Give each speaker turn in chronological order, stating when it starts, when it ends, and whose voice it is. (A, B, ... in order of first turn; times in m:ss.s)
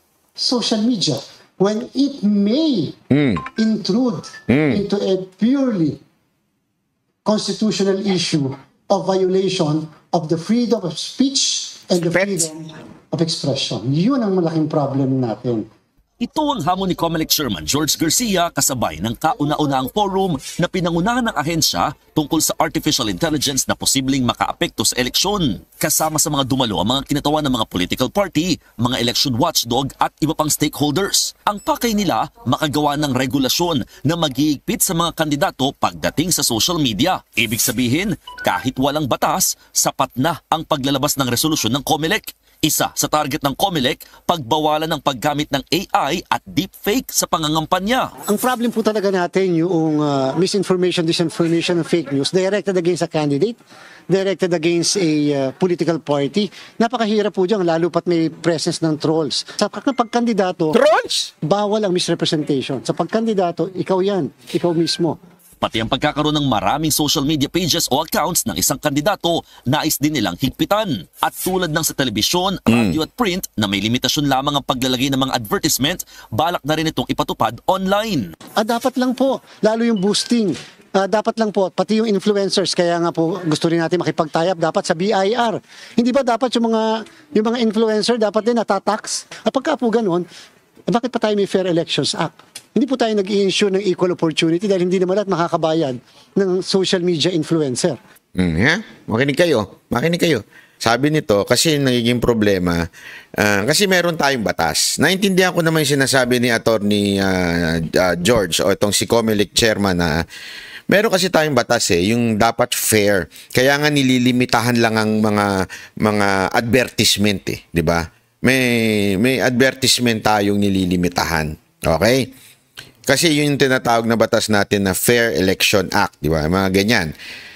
0:00.4-0:03.0 A
0:03.1-0:03.4 B
0:03.6-0:06.0 A
0:04.5-0:04.8 B
0:07.2-0:15.6 A
0:12.0-0:12.5 B
0:16.2-0:48.1 C
0:48.3-1:00.8 A
1:00.7-1:01.3 B
1:01.4-1:05.2 A
1:05.6-1:18.3 C
1:12.7-1:13.0 B
1:18.6-1:30.2 A
1:30.9-1:38.0 A
1:38.4-1:42.8 B
1:43.4-1:50.2 B
1:50.9-2:02.3 B
2:03.1-2:07.1 B